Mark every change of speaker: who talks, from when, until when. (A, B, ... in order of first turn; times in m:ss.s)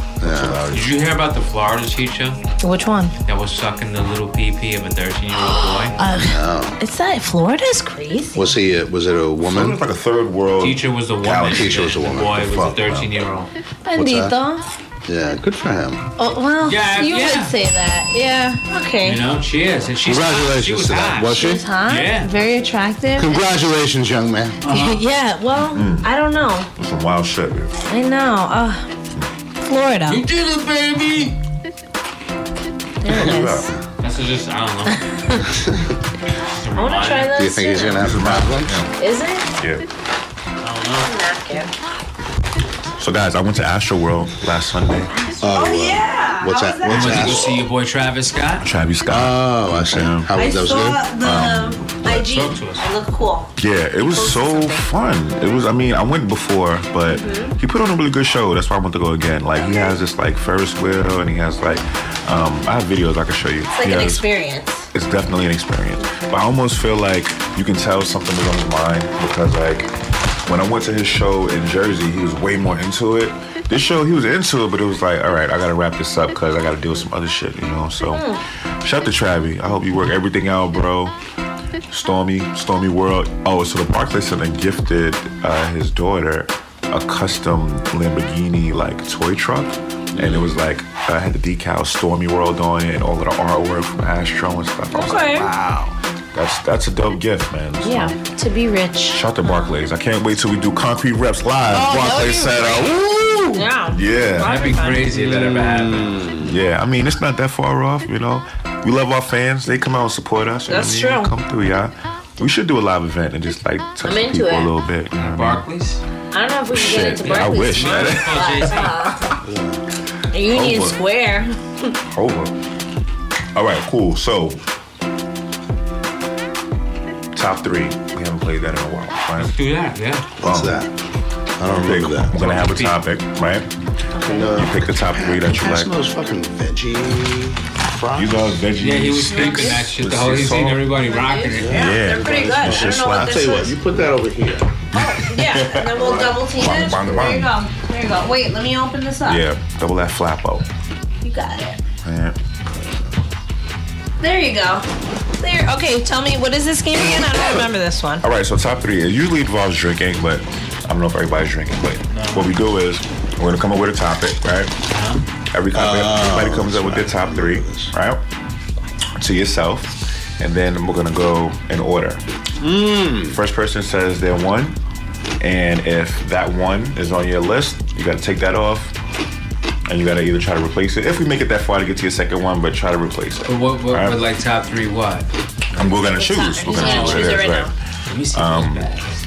0:00.2-0:00.6 A
0:00.2-0:01.0 B
0:00.7-0:02.4 C
0:02.6-0:03.1 D
0:03.2-0:06.0 C
0:05.3-0:08.5 D
0:06.2-0:06.8 A
0:08.3-0:09.8 A
0:09.4-0:13.2 B
0:10.6-0:13.5 C
0:11.5-0:12.8 A
0:13.8-0:14.6 D
0:14.0-0:14.3 A
0:15.1-0:16.0 A
0:16.2-0:19.2 D
0:16.6-0:17.5 C
0:19.0-0:22.3 C
0:20.0-0:21.6 A
0:21.3-0:23.3 D
0:23.2-0:24.6 A
0:24.6-0:25.0 C
0:24.7-0:26.7 D
0:25.7-0:26.1 B
0:26.8-0:27.8 B
0:27.9-0:28.9 D
0:29.7-0:30.2 D
0:30.1-0:31.4 C
0:33.0-0:33.7 D
0:33.1-0:33.7 B
0:33.1-0:33.8 A
0:34.0-0:35.0 C
0:34.9-0:35.4 D
0:35.5-0:35.9 A
0:36.5-0:37.3 C
0:36.7-0:38.1 D
0:37.3-0:38.8 A
0:38.0-0:38.9 B
0:38.9-0:39.5 D
0:39.6-0:39.8 B
0:40.6-0:41.1 C
0:41.0-0:41.7 D
0:43.0-0:45.2 B
0:45.2-0:47.5 D
0:45.4-0:47.5 A
0:46.9-0:48.6 C
0:48.6-0:50.3 B
0:49.1-0:51.1 A
0:50.3-0:53.5 D
0:51.2-0:52.2 B
0:52.1-0:52.9 C
0:53.6-1:04.2 B
0:54.1-0:54.9 D
0:57.1-0:57.5 D
0:59.6-0:59.9 D
1:03.7-1:04.9 D
1:04.9-1:09.9 B
1:10.4-1:18.3 B
1:18.1-1:18.4 D
1:18.8-1:21.1 B
1:21.9-1:38.2 B
1:30.1-1:30.5 A
1:34.9-1:35.5 D
1:37.8-1:39.7 D
1:39.1-1:44.6 B
1:41.7-1:43.0 D
1:43.5-1:45.1 D
1:44.4-1:46.2 C
1:45.1-1:46.6 A
1:46.4-1:55.6 B
1:50.7-1:51.3 D
1:54.0-1:54.7 D
1:55.2-1:56.0 C
1:56.3-1:59.3 D
1:56.7-1:58.8 B
1:57.2-1:58.9 C
1:59.4-1:59.8 A
2:00.3-2:01.9 D
2:00.4-2:01.0 B
2:02.0-2:02.5 B
2:03.5-2:04.6 B
2:07.3-2:09.5 B
2:09.4-2:10.2 C
2:10.4-2:10.9 A
2:10.4-2:10.8 B
2:11.6-2:12.4 A
2:11.6-2:13.7 B
2:12.3-2:13.0 C
2:14.1-2:14.6 D
2:14.2-2:18.5 A
2:14.4-2:15.9 B
2:18.1-2:20.9 B
2:18.8-2:21.8 C
2:19.3-2:19.9 D
2:21.0-2:23.7 D
2:21.5-2:24.8 A
2:21.7-2:23.6 B
2:24.9-2:27.5 B
2:24.9-2:29.4 D
2:29.2-2:30.6 B
2:31.2-2:31.8 D
2:32.0-2:32.4 B
2:34.2-2:34.8 D
2:35.4-2:38.2 D
2:37.1-2:37.6 B
2:38.2-2:44.7 B
2:42.1-2:42.5 C
2:44.9-2:45.2 C
2:45.5-2:48.2 B
2:45.7-2:47.9 A
2:49.2-2:52.2 B
2:52.6-2:53.4 A
2:53.3-2:54.8 B
2:55.4-2:58.9 B
2:59.8-3:04.2 B
3:03.5-3:05.3 C
3:05.7-3:07.7 B
3:05.8-3:07.7 D
3:06.7-3:07.4 C
3:08.1-3:09.1 C
3:08.3-3:08.9 B